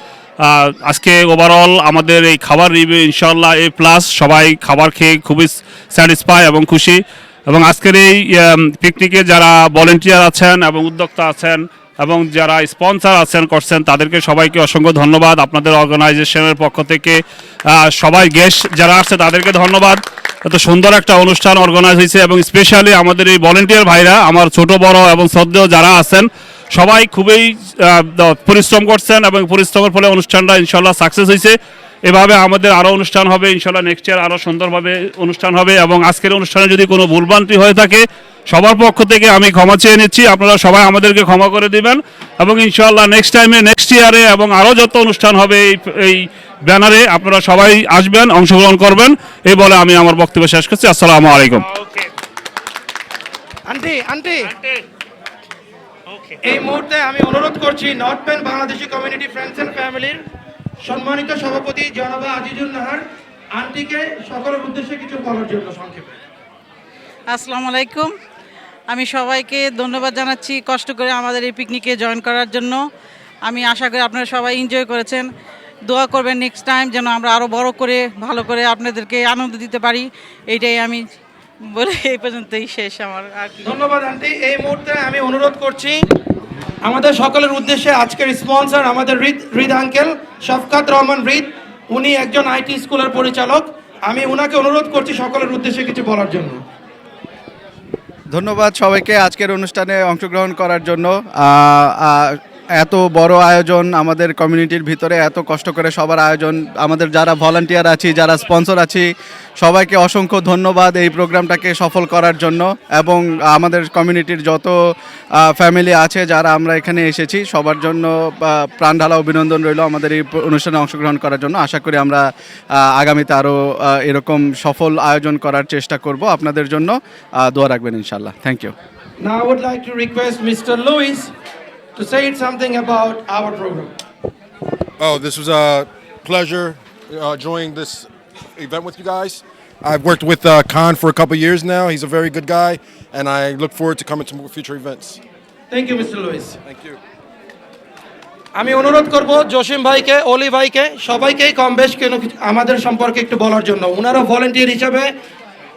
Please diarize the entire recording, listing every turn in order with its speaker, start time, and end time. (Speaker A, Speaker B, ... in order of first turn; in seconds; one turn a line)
Speaker A: 0.4-51.7
Speaker B: 53.7-54.6
Speaker B: 56.4-60.2
Speaker B: 60.8-66.2
Speaker C: 67.3-68.1
Speaker C: 68.9-72.8
Speaker C: 73.5-75.3
Speaker C: 75.9-81.1
Speaker C: 81.7-83.7
Speaker B: 83.6-86.1
Speaker B: 86.8-96.6
Speaker D: 98.7-100.7
Speaker D: 103.6-105.8
Speaker D: 106.4-108.9
Speaker D: 109.7-113.2
Speaker D: 113.7-114.4
Speaker D: 115.7-116.4
Speaker D: 117.2-117.9
Speaker D: 119.0-120.1
Speaker D: 120.9-122.0
Speaker D: 124.1-124.8
Speaker D: 125.7-126.7
Speaker D: 127.8-128.7
Speaker B: 129.2-131.3
Speaker B: 132.0-133.9
Speaker E: 135.0-145.2
Speaker B: 145.7-146.6
Speaker E: 146.7-147.0
Speaker B: 148.6-155.1